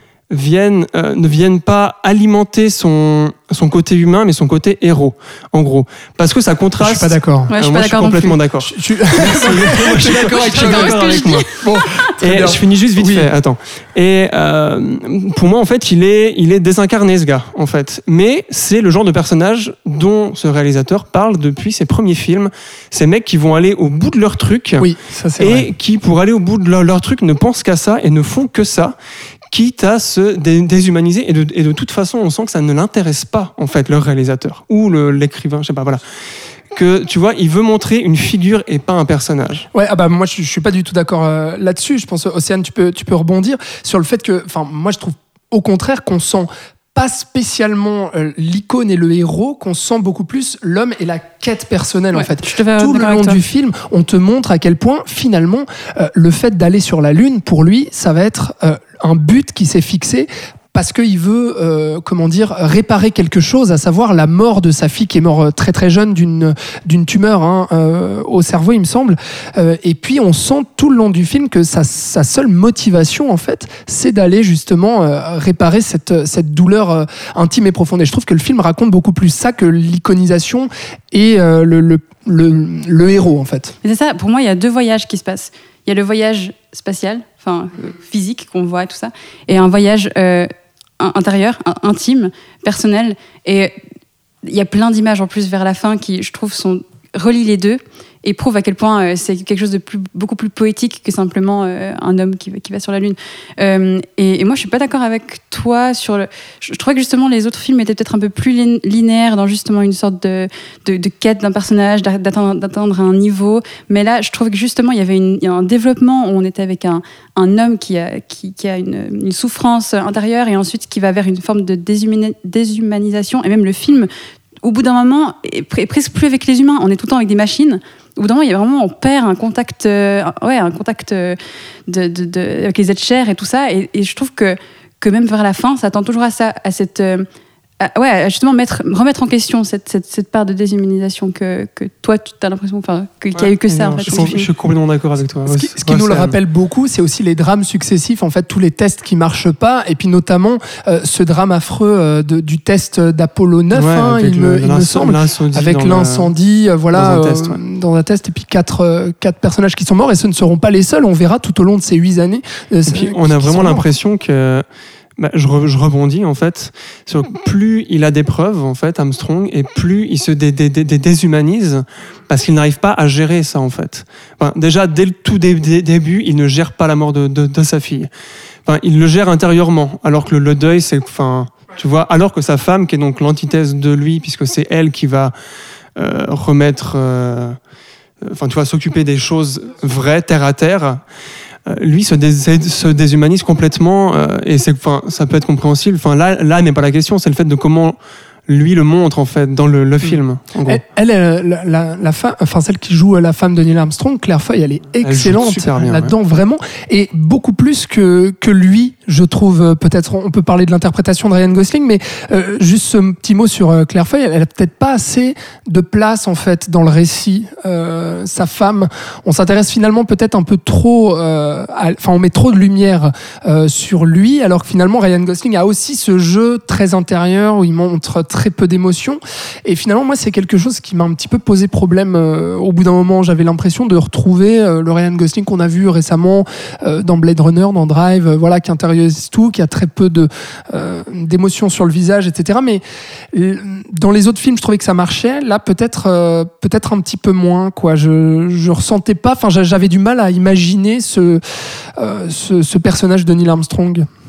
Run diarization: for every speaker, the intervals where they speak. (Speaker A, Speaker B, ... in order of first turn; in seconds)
Speaker A: 0.3-11.5, 12.2-28.9, 29.5-36.0, 36.7-39.7, 143.4-146.3, 153.7-156.3, 156.9-157.6, 162.9-164.7, 165.2-178.1, 178.7-185.3, 186.0-187.6, 188.2-191.0, 191.7-198.0, 198.5-200.8, 205.0-206.1
Speaker B: 6.8-7.5, 8.6-13.3, 24.8-25.7, 39.7-83.7, 144.1-144.4, 145.5-163.9, 200.0-251.4, 252.0-254.1
Speaker C: 7.5-8.4, 10.1-12.0, 52.1-53.4, 83.8-90.5, 91.0-93.7, 94.4-124.1, 124.6-137.3, 137.8-144.5